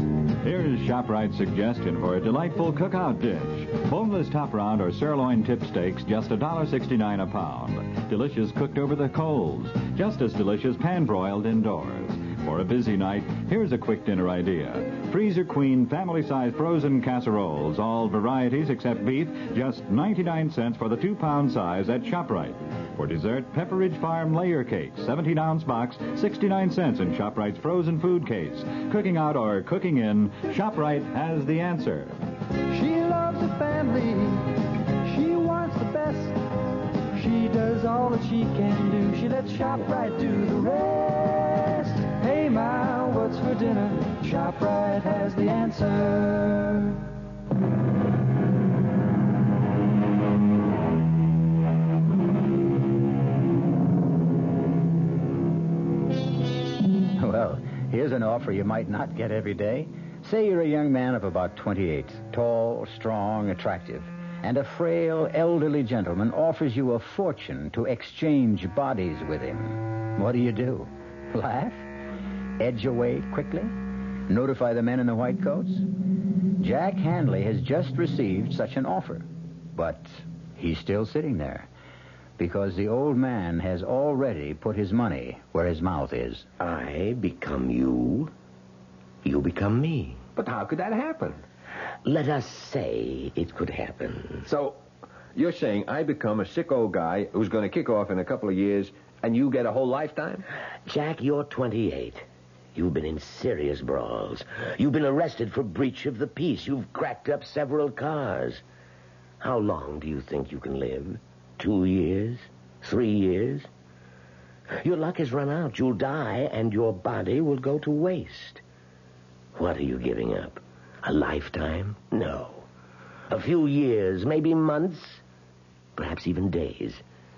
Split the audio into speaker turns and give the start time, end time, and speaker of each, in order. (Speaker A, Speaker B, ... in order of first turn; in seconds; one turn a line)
Speaker A: 0.4-32.1
Speaker B: 32.7-34.5
Speaker B: 35.0-36.4
Speaker B: 37.1-46.9
Speaker C: 57.2-71.9
Speaker C: 72.6-73.7
Speaker C: 74.3-75.8
Speaker C: 76.6-81.7
Speaker C: 82.4-86.5
Speaker D: 86.6-88.3
Speaker D: 89.2-90.2
Speaker E: 90.4-91.4
Speaker D: 92.0-94.5
Speaker E: 94.4-94.8
Speaker E: 95.3-100.4
Speaker D: 100.9-108.6
Speaker D: 109.4-113.7
Speaker D: 114.8-118.6
Speaker D: 119.5-122.7
Speaker D: 123.3-125.2
Speaker D: 126.0-127.0